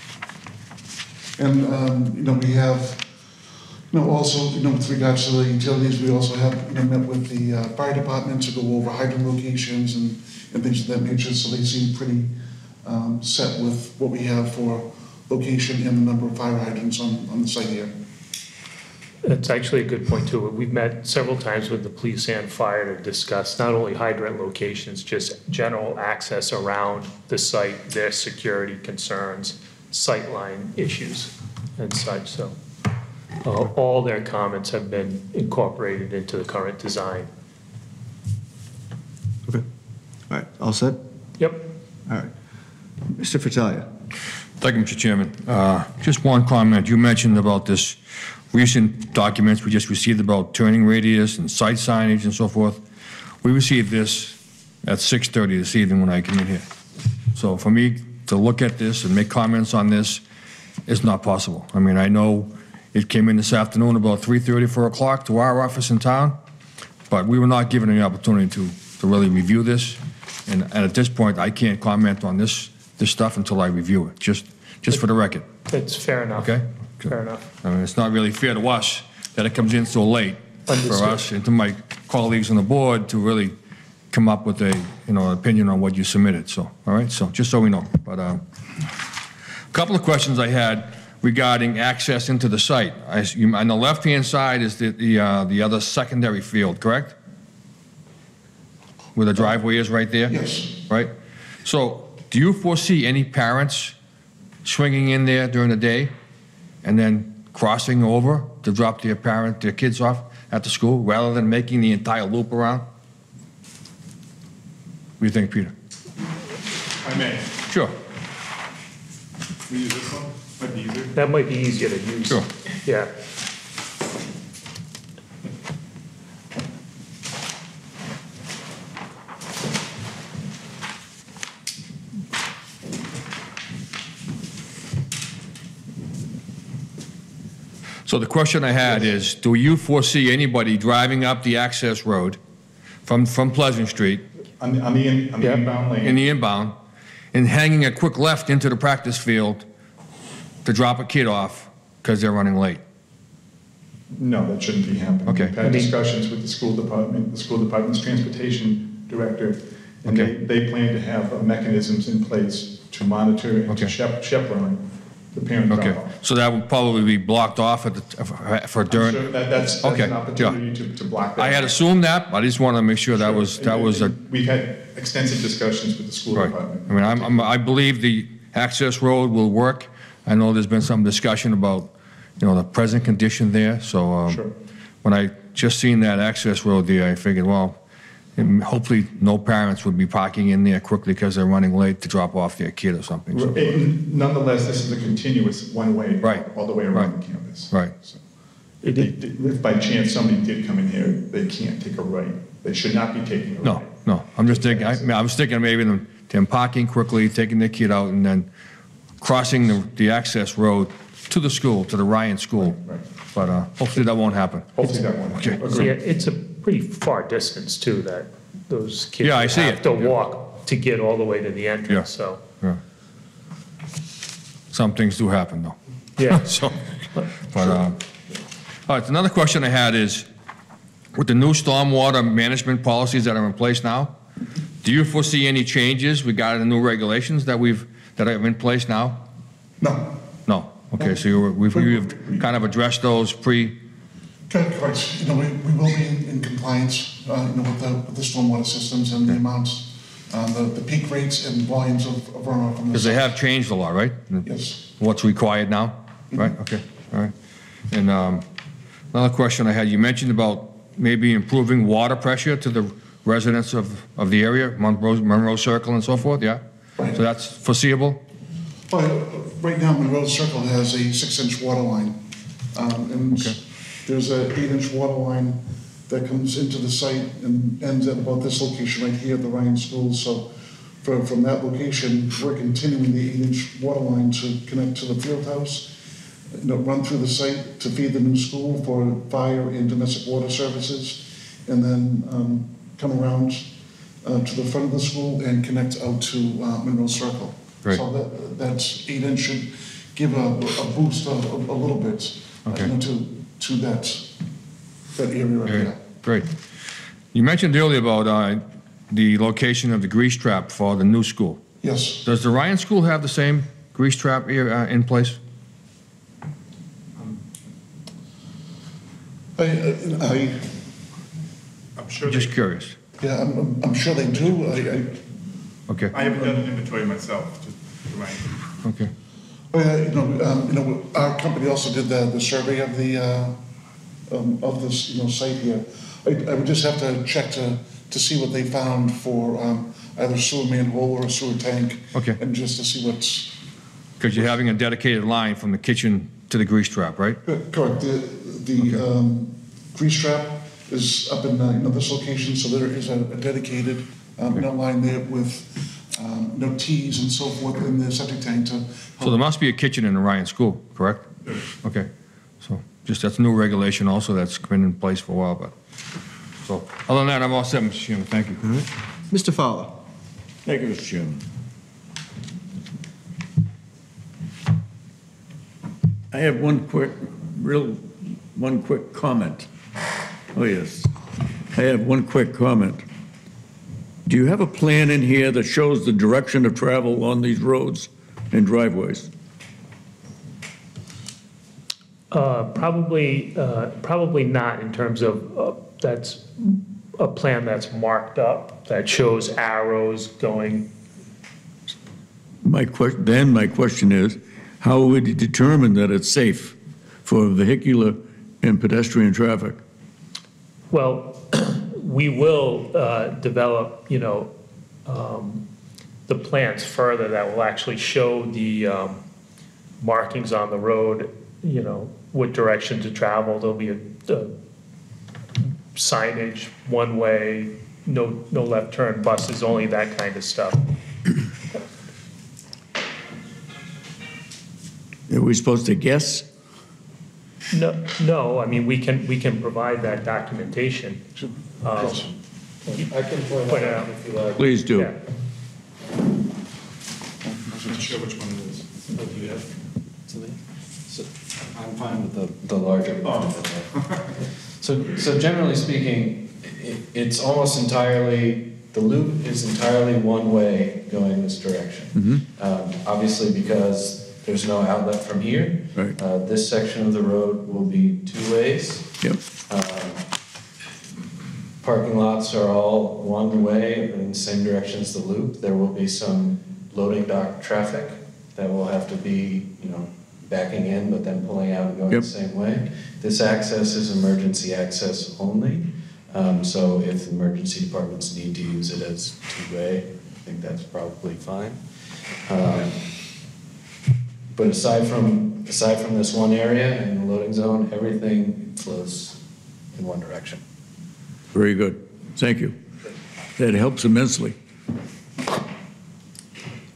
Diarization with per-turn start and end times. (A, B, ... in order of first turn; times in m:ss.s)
0:01.4-0:03.1 A
0:03.9-0:18.0 A
0:19.2-0:32.5 B
0:33.4-0:37.3 B
0:40.3-0:41.0 C
0:41.4-0:41.7 B
0:43.1-0:43.9 C
0:44.6-0:48.0 D
0:48.5-0:52.8 D
0:53.4-0:56.6 D
0:57.3-1:00.2 D
1:00.8-1:06.4 D
1:07.1-1:15.4 D
1:15.7-1:17.4 B
1:16.4-1:23.6 D
1:20.7-1:21.3 B
1:24.1-1:28.4 D
1:29.7-1:37.2 D
1:39.1-1:41.1 D
1:40.3-1:40.8 A
1:41.6-1:43.9 D
1:44.6-1:46.1 D
1:46.8-1:52.8 D
1:55.2-1:55.7 D
1:57.0-1:57.5 E
1:57.7-1:57.9 D
1:59.7-2:01.1 E
2:01.1-2:03.1 B
2:18.0-2:22.4 D
2:23.0-2:24.2 D
2:24.6-2:26.2 E
2:25.4-2:26.8 D
2:27.3-2:29.6 D
2:30.6-2:32.8 D
2:34.1-2:46.1 E
2:35.2-2:35.9 D
2:40.0-2:40.3 D
2:45.7-2:50.6 D
2:48.9-2:51.8 E
2:51.4-2:54.1 D
2:53.1-2:57.5 E
2:56.3-3:04.4 D
3:05.0-3:07.8 D
3:08.4-3:13.8 D
3:13.3-3:18.2 E
3:16.2-3:17.1 D
3:18.8-3:25.1 E
3:23.6-3:28.5 D
3:29.2-3:32.8 D
3:33.3-3:35.8 D
3:34.7-3:35.9 E
3:35.7-3:42.4 B
3:39.2-3:40.1 D
3:44.7-3:46.8 D
3:46.2-3:46.6 B
3:47.2-3:47.7 B
3:47.4-3:48.0 D
3:48.9-3:50.3 D
3:51.1-3:54.1 D
3:54.8-3:59.2 D
3:59.8-4:00.1 A
4:00.5-4:03.8 D
4:01.0-4:02.5 A
4:04.5-4:13.3 A
4:12.9-4:17.3 D
4:14.4-4:14.8 A
4:17.9-4:18.4 D
4:19.1-4:28.2 D
4:28.9-4:32.2 A
4:32.7-4:40.5 A
4:41.0-4:46.0 A
4:46.5-4:53.7 A
4:54.2-5:04.4 A
5:05.1-5:06.0 A
5:05.6-5:06.5 D
5:07.3-5:11.6 D
5:11.8-5:12.2 A
5:12.2-5:15.4 D
5:19.6-5:20.8 A
5:22.0-5:22.5 E
5:22.2-5:23.0 D
5:23.2-5:25.2 A
5:26.1-5:28.4 E
5:28.8-5:29.1 D
5:29.7-5:33.6 A
5:34.3-5:43.6 A
5:44.2-5:47.4 D
5:47.4-5:59.4 A
5:59.2-6:02.1 D
6:02.6-6:05.7 D
6:06.6-6:08.6 D
6:08.6-6:10.0 C
6:10.6-6:11.4 F
6:16.3-6:19.7 F
6:20.5-6:21.1 F
6:21.7-6:23.0 F
6:24.2-6:29.3 F
6:32.3-6:40.9 B
6:42.6-6:49.8 F
6:50.9-6:54.5 B
6:55.0-6:55.6 B
6:56.3-6:59.2 B
7:00.0-7:04.5 B
7:05.9-7:10.9 B
7:15.3-7:16.4 F
7:17.7-7:21.2 B
7:21.4-7:22.3 A
7:21.8-7:22.3 B
7:22.9-7:24.6 G
7:23.7-7:24.1 B
7:24.6-7:25.1 F
7:24.9-7:25.2 B
7:27.4-7:28.2 A
7:28.1-7:28.8 E
7:29.2-7:29.6 G
7:30.3-7:30.6 G
7:31.1-7:33.9 G
7:34.8-7:50.2 G
7:42.1-7:42.4 F
7:51.8-8:11.8 G
8:12.4-8:13.0 G
8:14.5-8:19.4 G
8:19.9-8:20.6 G
8:21.5-8:22.8 F
8:23.6-8:24.5 F